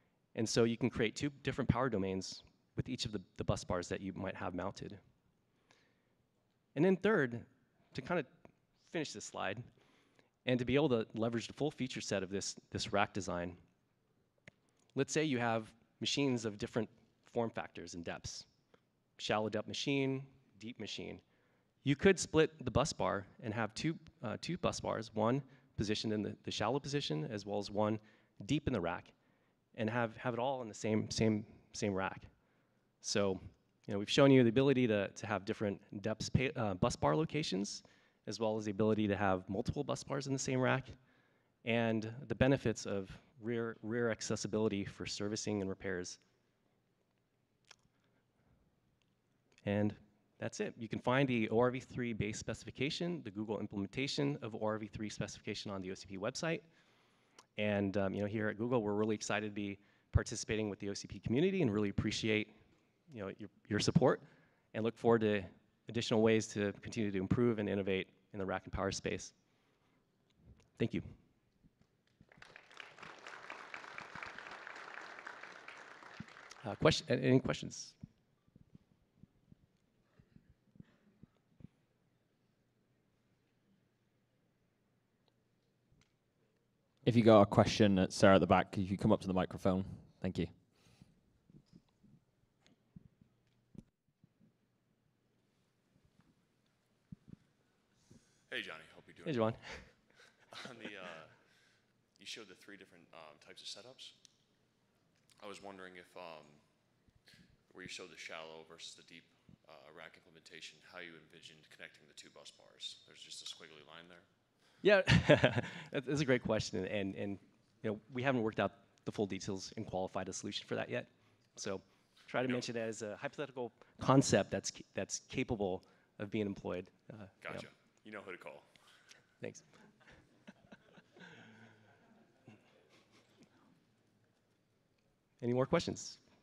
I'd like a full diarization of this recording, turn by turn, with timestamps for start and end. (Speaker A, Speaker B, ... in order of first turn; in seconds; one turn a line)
Speaker A: 0.3-5.0
Speaker A: 6.8-8.3
Speaker A: 8.9-9.6
Speaker A: 10.4-13.6
Speaker A: 14.9-18.5
Speaker A: 19.2-21.2
Speaker A: 21.8-29.1
Speaker A: 29.8-32.3
Speaker A: 33.0-41.0
Speaker A: 41.6-46.2
Speaker A: 49.6-56.6
Speaker A: 57.6-62.5
Speaker A: 63.1-69.3
Speaker A: 70.8-71.1
Speaker A: 76.6-78.0
Speaker B: 87.0-90.6
Speaker C: 98.5-99.5
Speaker A: 99.2-100.0
Speaker C: 100.5-104.2
Speaker C: 105.4-106.6
Speaker C: 107.7-114.3
Speaker A: 114.8-127.7
Speaker C: 127.4-128.7
Speaker A: 135.4-136.2